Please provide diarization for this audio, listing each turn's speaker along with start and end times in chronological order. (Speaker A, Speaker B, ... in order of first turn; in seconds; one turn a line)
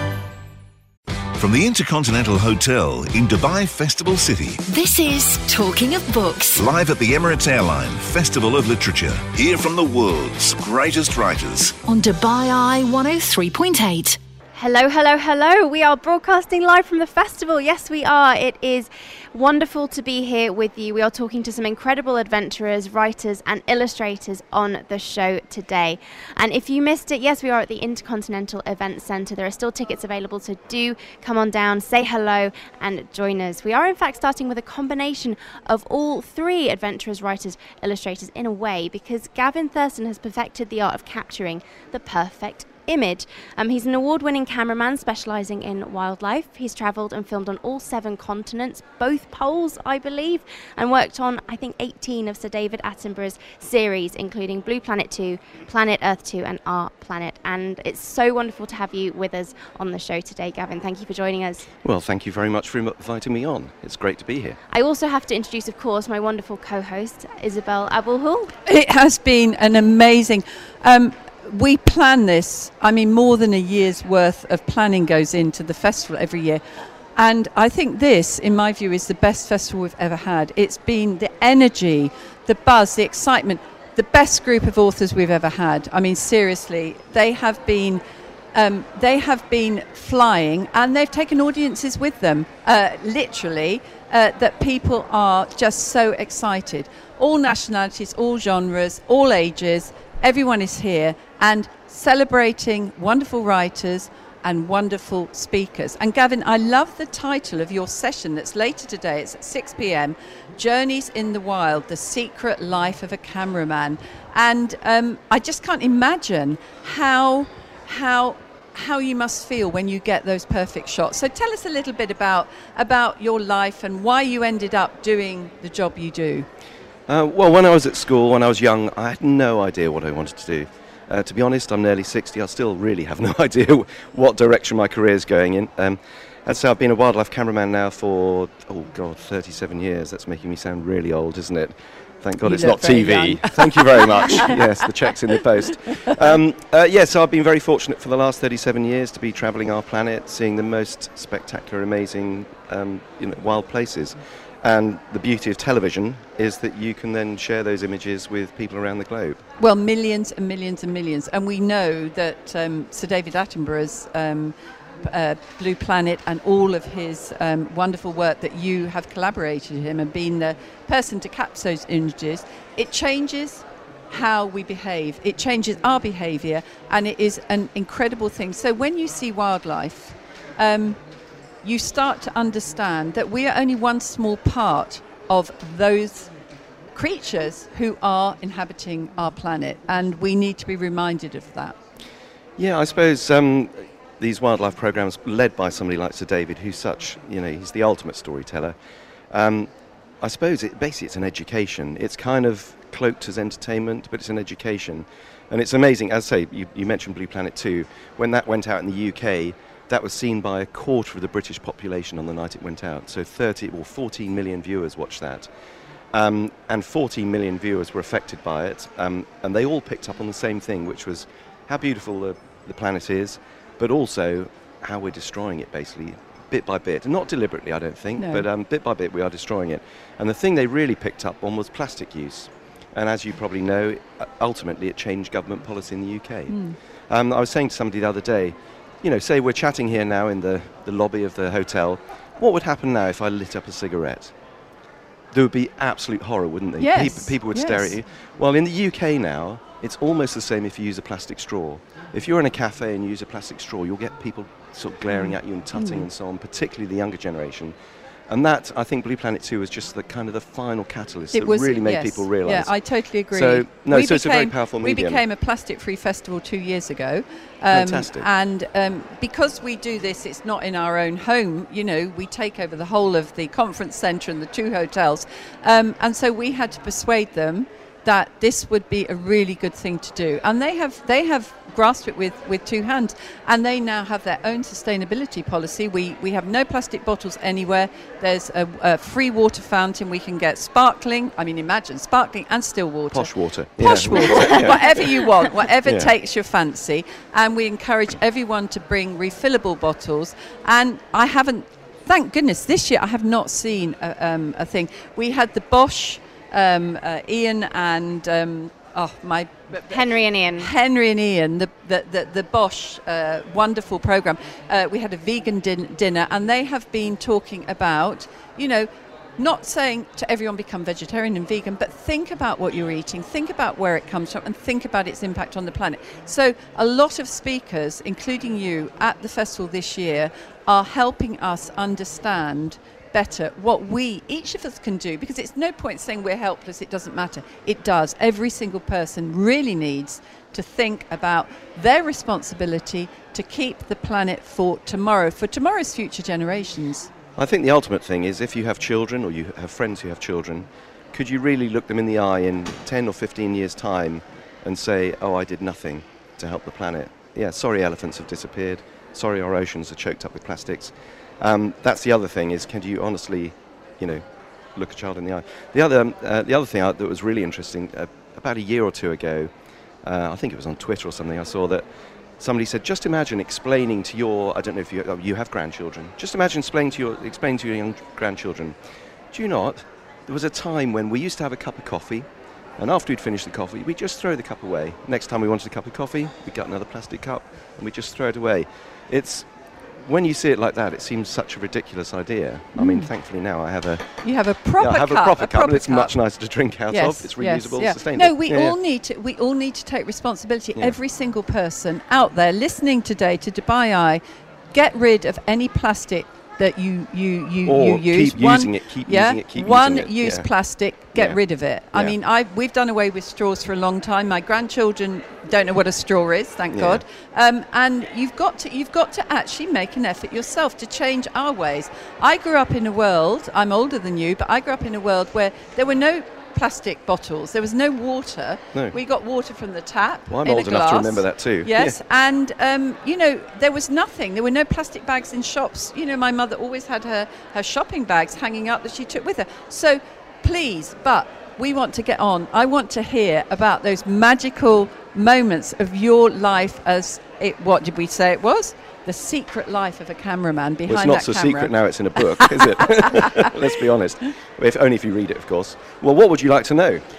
Speaker A: 1.4-4.6
Speaker B: 4.7-6.6
Speaker A: 6.5-11.8
Speaker B: 11.8-14.2
Speaker C: 14.6-61.7
Speaker D: 61.8-64.6
Speaker C: 64.7-68.5
Speaker E: 68.7-76.6
Speaker E: 77.2-88.0
Speaker E: 88.5-126.5
Speaker D: 127.1-159.4
Speaker E: 142.4-144.6
Speaker E: 159.6-181.0
Speaker E: 181.6-186.3
Speaker E: 186.9-191.8
Speaker D: 192.6-198.7
Speaker D: 199.3-215.5
Speaker D: 216.1-244.3
Speaker E: 228.2-228.4
Speaker E: 236.5-236.8
Speaker D: 245.3-257.7
Speaker E: 246.8-247.9
Speaker E: 255.1-256.1
Speaker D: 258.3-262.7
Speaker E: 261.3-347.1
Speaker D: 263.3-265.2
Speaker D: 267.7-268.3
Speaker D: 293.1-295.1
Speaker D: 295.8-296.1
Speaker C: 309.9-310.7
Speaker D: 347.4-364.2
Speaker D: 364.7-369.5
Speaker D: 370.0-371.8
Speaker D: 372.4-378.8
Speaker D: 379.3-389.5
Speaker D: 390.0-394.1
Speaker E: 392.7-393.1
Speaker E: 394.2-396.1
Speaker D: 394.8-398.8
Speaker E: 396.9-404.2
Speaker E: 404.7-451.7
Speaker D: 407.6-410.5
Speaker D: 411.1-411.4
Speaker D: 416.7-417.0
Speaker D: 430.3-432.0
Speaker D: 450.9-457.0
Speaker E: 452.4-453.3